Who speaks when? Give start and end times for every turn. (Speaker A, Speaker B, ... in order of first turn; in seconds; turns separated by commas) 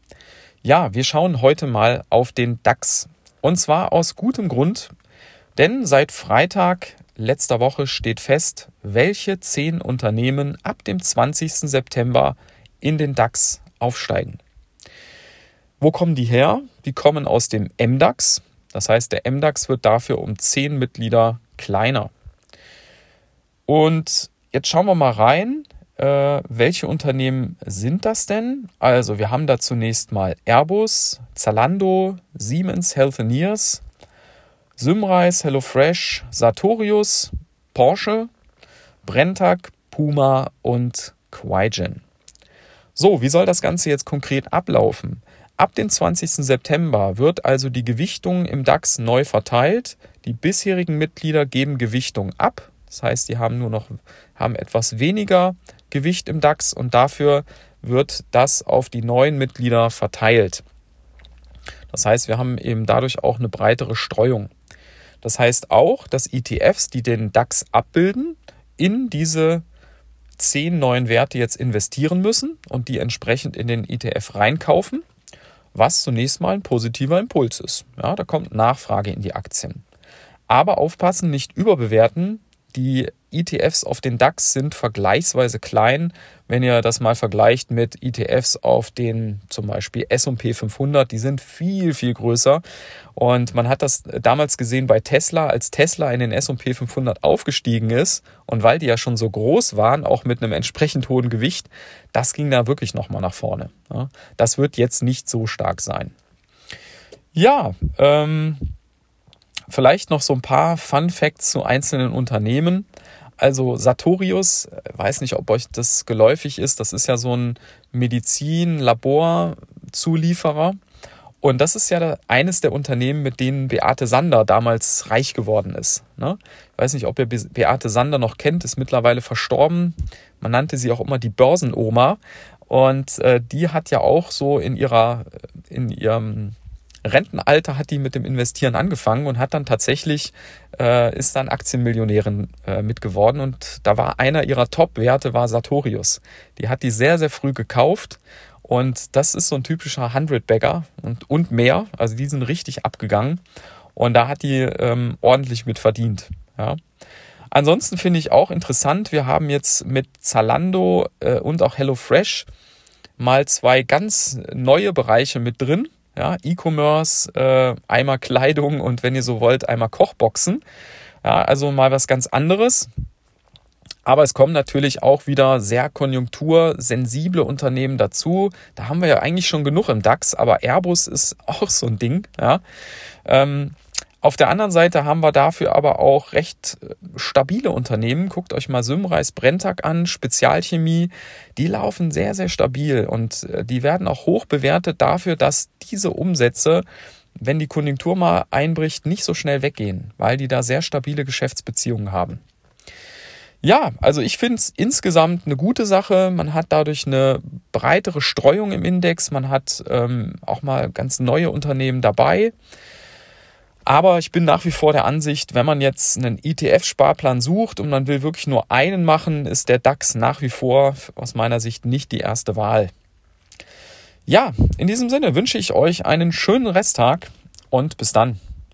Speaker A: 0.6-4.9, Speaker A: 5.5-14.4, Speaker A: 15.8-22.1, Speaker A: 23.7-33.8, Speaker A: 34.8-38.3, Speaker A: 39.0-42.0, Speaker A: 43.0-60.6, Speaker A: 61.9-64.5, Speaker A: 65.2-69.6, Speaker A: 70.4-75.0, Speaker A: 75.7-79.8, Speaker A: 80.5-92.6, Speaker A: 93.1-106.1, Speaker A: 107.3-108.7, Speaker A: 109.7-112.9, Speaker A: 113.4-120.8, Speaker A: 121.4-153.4, Speaker A: 153.9-156.8, Speaker A: 157.5-162.5, Speaker A: 163.2-170.6, Speaker A: 171.2-172.9, Speaker A: 174.0-182.6, Speaker A: 183.2-196.8, Speaker A: 197.4-202.4, Speaker A: 203.6-212.5, Speaker A: 213.8-222.9, Speaker A: 224.3-228.4